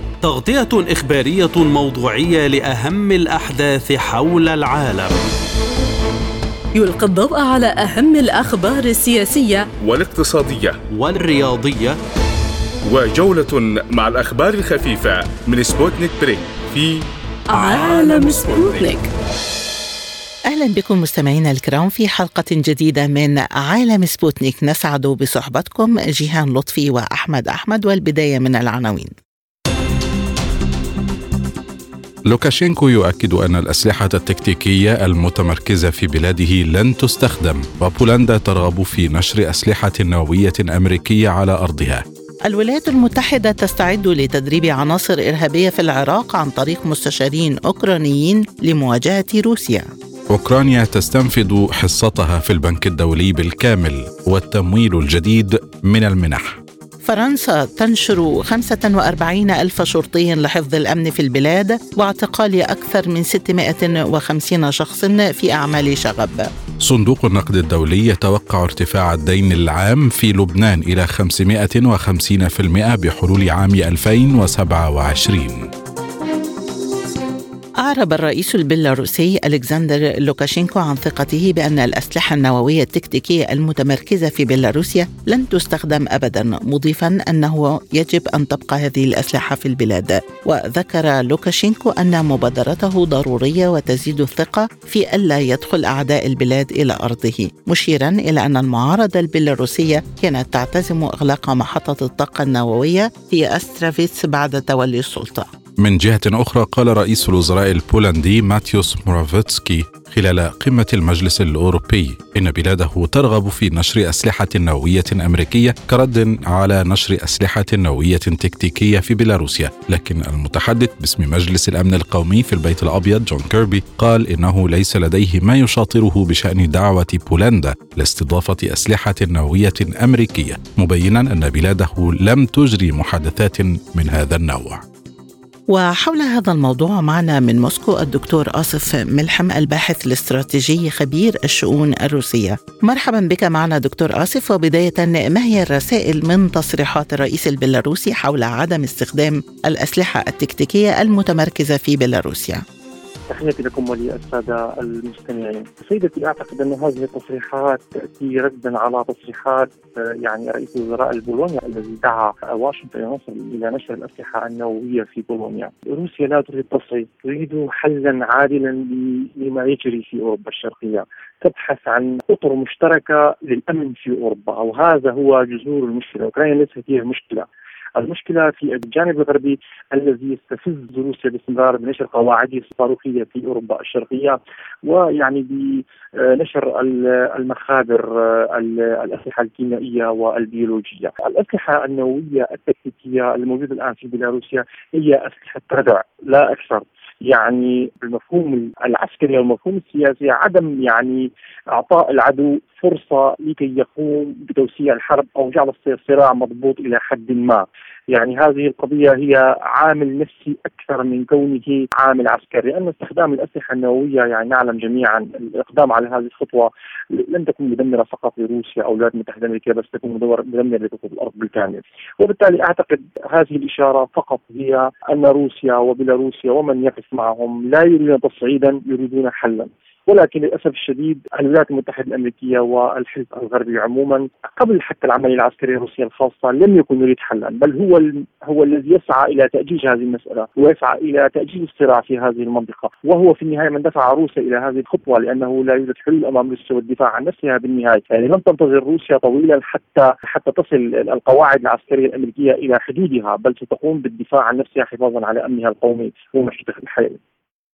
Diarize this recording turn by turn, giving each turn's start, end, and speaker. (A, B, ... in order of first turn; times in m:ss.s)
0:00.2-0:05.2 A
0:06.7-0:09.7 B
0:09.8-0:10.8 C
0:10.9-0:12.0 A
0:12.8-0:18.9 C
0:17.5-0:19.1 B
0:20.5-0:29.1 D
0:32.3-0:42.0 E
0:42.4-0:49.9 D
0:50.3-0:56.6 E
0:57.0-1:06.5 D
1:06.8-1:15.7 E
1:17.8-1:45.5 D
1:45.8-2:14.8 E
2:15.7-2:32.6 D
2:33.3-4:17.2 F